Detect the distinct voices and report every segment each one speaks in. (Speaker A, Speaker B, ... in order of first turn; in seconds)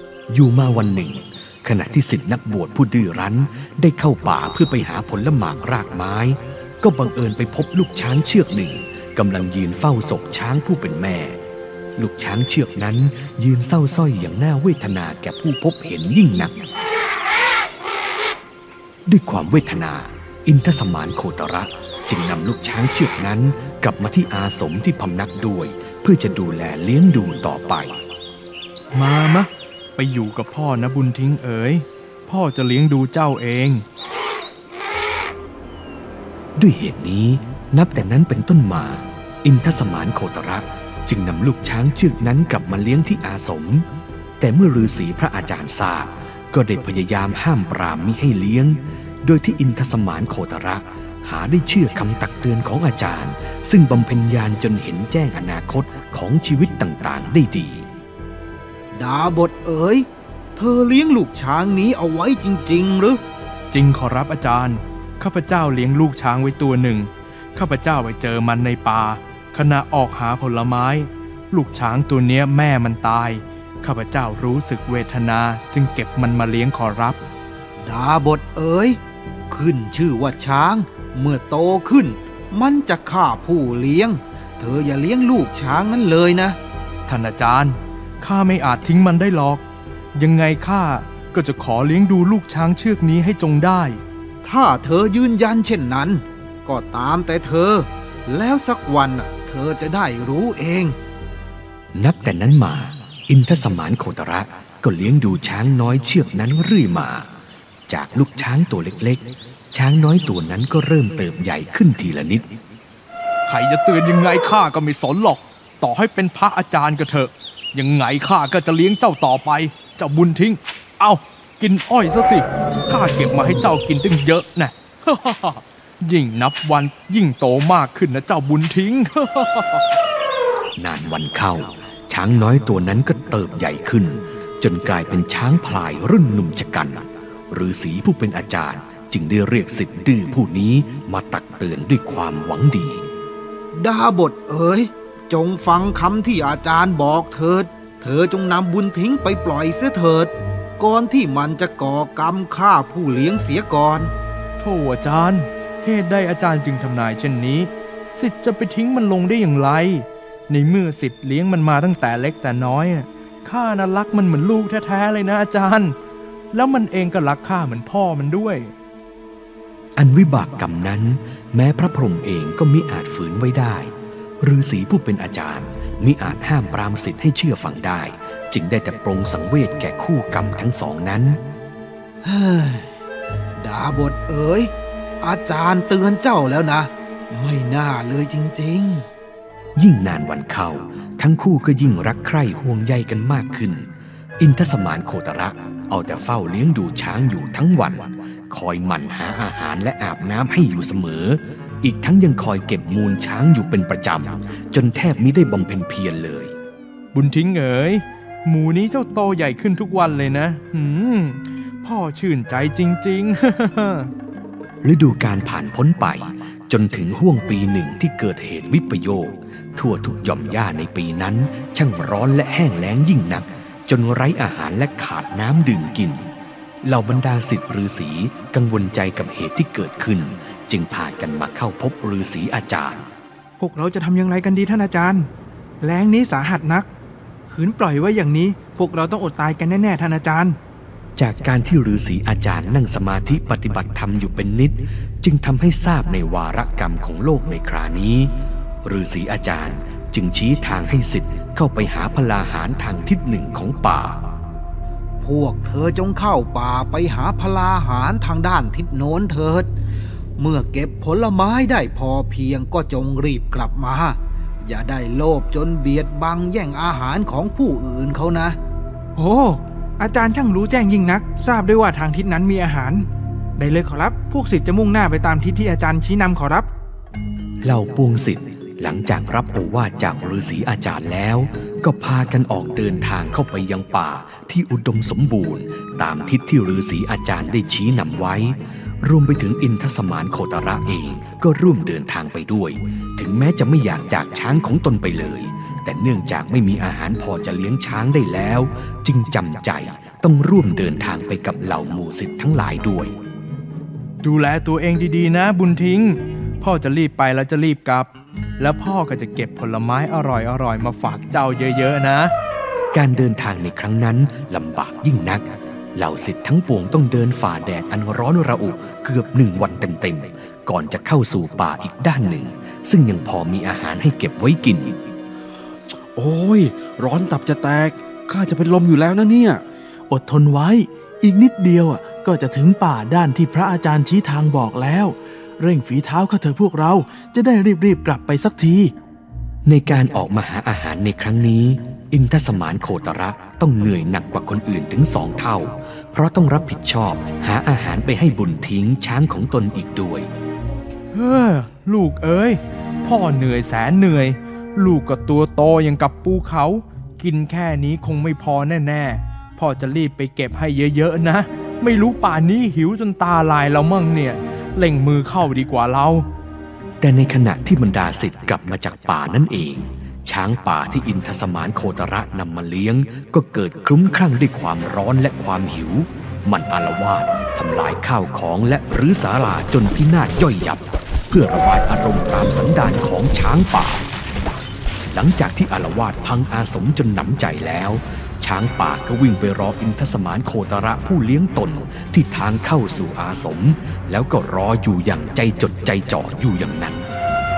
Speaker A: 0.3-11.4, 12.0-16.6, 19.1-28.0, 36.6-43.9, 44.4-57.9, 101.9-107.3, 107.9-112.5, 130.8-143.1, 170.0-181.4, 189.8-206.5, 214.8-226.3, 226.8-233.1, 241.2-248.3, 248.8-254.2, 277.6-303.1, 312.9-325.0, 339.7-350.3, 367.0-384.1, 385.1-397.1
Speaker B: 28.9-33.8, 63.7-77.2, 87.1-89.6, 90.2-94.0, 113.5-129.9, 154.6-166.0, 166.5-168.7, 207.1-214.1, 304.2-312.3, 351.1-366.3
Speaker C: 59.1-60.0, 60.6-63.1, 77.9-79.0, 79.5-86.6, 94.5-100.9, 143.8-154.1, 182.3-182.9, 183.6-189.1, 255.2-259.7, 260.4-268.5
Speaker D: 233.6-235.3, 235.8-236.9, 237.5-240.6, 269.2-273.1, 273.6-276.7
Speaker E: 326.2-329.6
Speaker F: 330.1-338.9